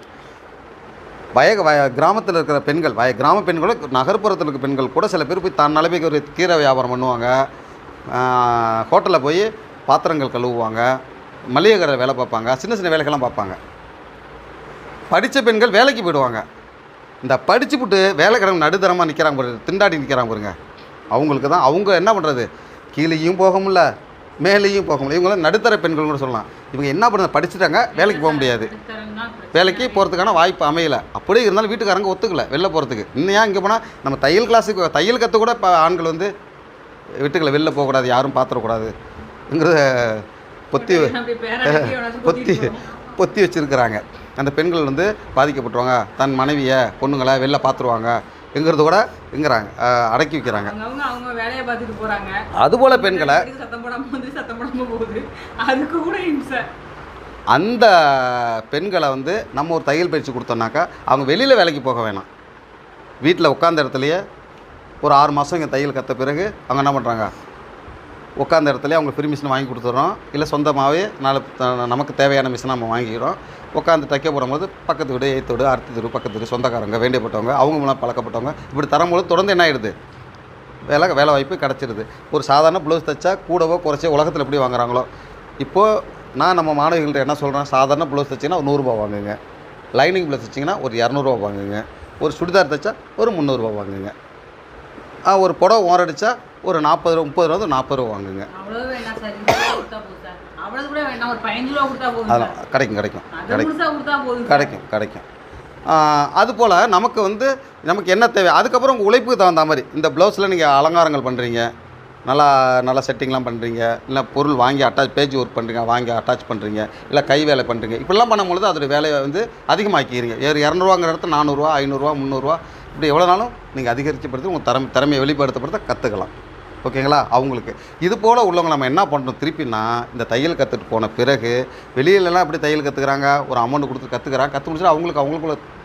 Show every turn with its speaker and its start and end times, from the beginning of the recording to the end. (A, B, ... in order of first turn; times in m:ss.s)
0:01.3-0:07.4 A
0:08.1-0:10.9 A
0:11.5-0:13.6 A
0:15.1-0:16.4 A
0:17.2-0:20.5 A
0:21.1-0:23.9 A
0:24.4-0:28.7 A
0:27.9-0:30.2 B
0:29.5-0:36.3 A
0:37.2-0:38.9 A
0:39.5-0:50.7 A
0:40.7-0:42.9 B
0:50.4-0:52.4 B
0:52.6-0:53.5 A
0:52.9-0:56.6 B
0:57.5-1:02.3 A
1:03.2-1:04.2 A
1:05.0-1:07.3 A
1:08.4-1:19.9 A
1:20.9-1:25.1 A
1:25.6-1:29.4 A
1:30.0-1:34.1 A
1:35.2-1:38.5 A
1:38.5-1:42.6 B
1:42.3-1:43.7 A
1:43.3-1:44.7 B
1:44.4-1:45.2 A
1:45.9-1:51.7 A
1:52.2-2:06.3 A
2:06.8-2:15.6 A